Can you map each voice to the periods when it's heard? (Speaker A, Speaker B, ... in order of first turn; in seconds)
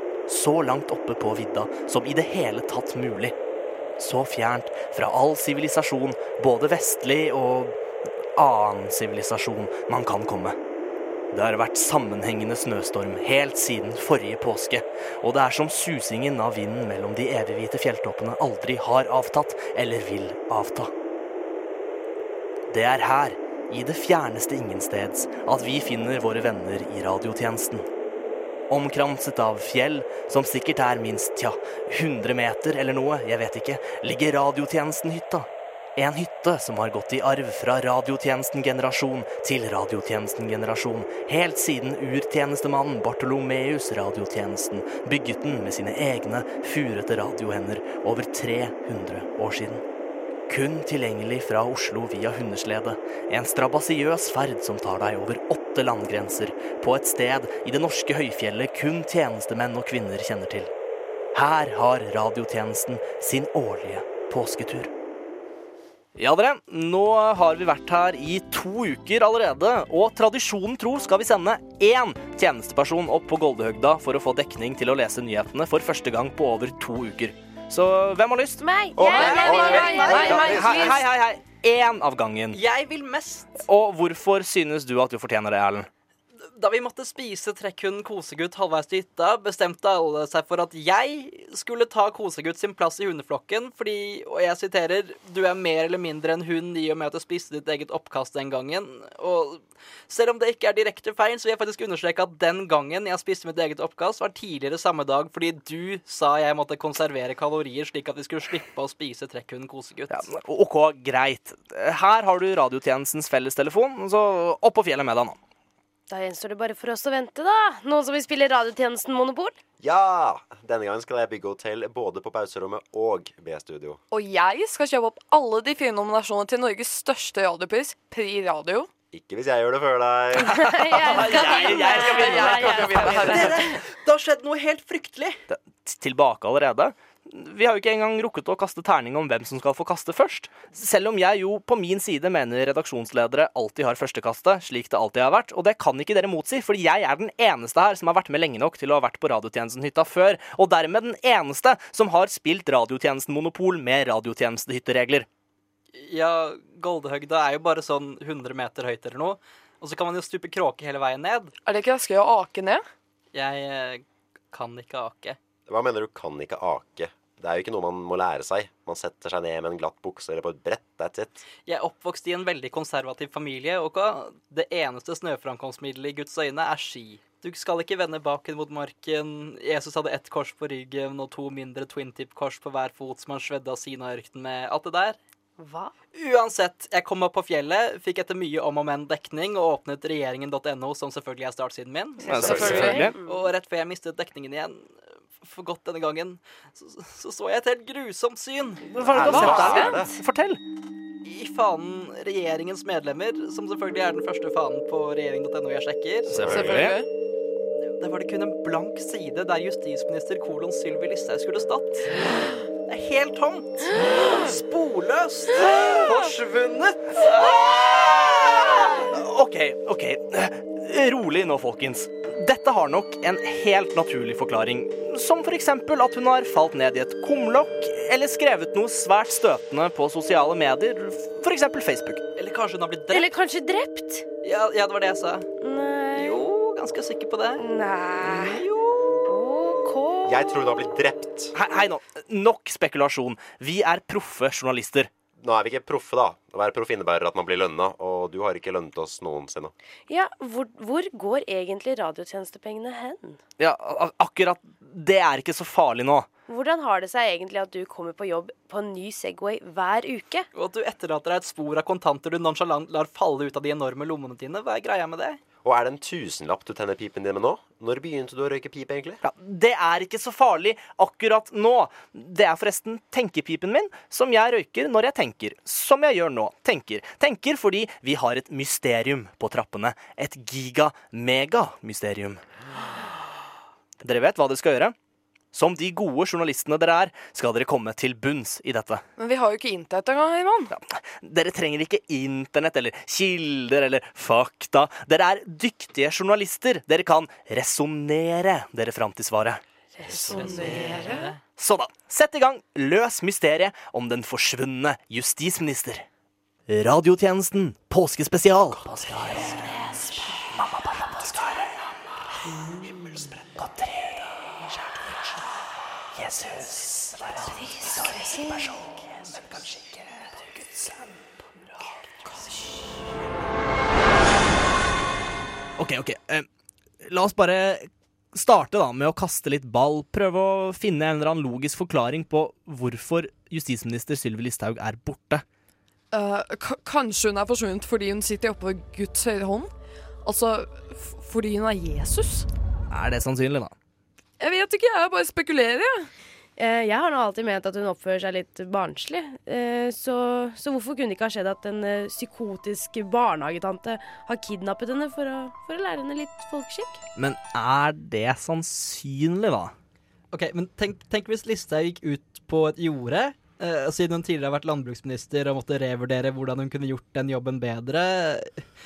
Speaker A: 0.3-3.3, 4.0-7.7, 8.3-10.6, 11.3-20.9, 22.7-27.9, 28.7-49.8, 50.5-60.7, 61.3-64.9, 66.2-78.6, 79.5-82.6, 83.6-85.9, 110.1-115.4, 131.1-133.4, 135.5-155.3, 192.2-193.2, 198.9-200.6, 206.4-207.0, 217.2-232.2, 241.5-245.1, 253.6-256.3, 269.2-282.4, 284.0-284.9, 285.5-289.0, 290.7-299.6, 301.6-306.0, 306.7-311.8, 312.6-314.8, 316.1-321.2, 321.8-322.1, 325.8-326.5, 327.0-335.4, 342.9-343.7, 357.1-359.7
Speaker B: 78.6-80.8, 116.1-119.5, 130.5-132.9, 185.6-185.9, 192.4-193.3, 233.1-234.2, 235.6-236.4, 237.6-238.6, 239.2-240.4, 250.1-253.4, 256.5-260.5, 300.0-301.3, 346.6-357.0
Speaker C: 79.0-80.8, 119.8-124.0, 129.1-131.4, 132.4-133.6, 165.7-171.4, 192.3-193.0, 199.1-200.2, 206.3-206.9, 240.2-241.5, 245.4-249.7, 265.6-269.2
Speaker D: 79.1-80.8, 82.5-83.5, 86.5-110.2, 131.1-135.4, 155.9-161.5, 163.3-165.4, 171.7-185.2, 186.1-194.9, 195.4-199.7, 201.2-206.8, 208.0-217.2, 232.3-233.3, 234.4-235.5, 236.1-237.6, 238.2-239.2, 260.5-265.4, 300.1-301.4, 360.3-368.5
Speaker E: 79.2-81.0, 124.1-128.9, 132.0-133.3, 161.7-162.8, 199.2-199.9, 206.5-207.0, 289.2-290.7, 336.1-339.7, 340.2-342.5, 344.4-346.1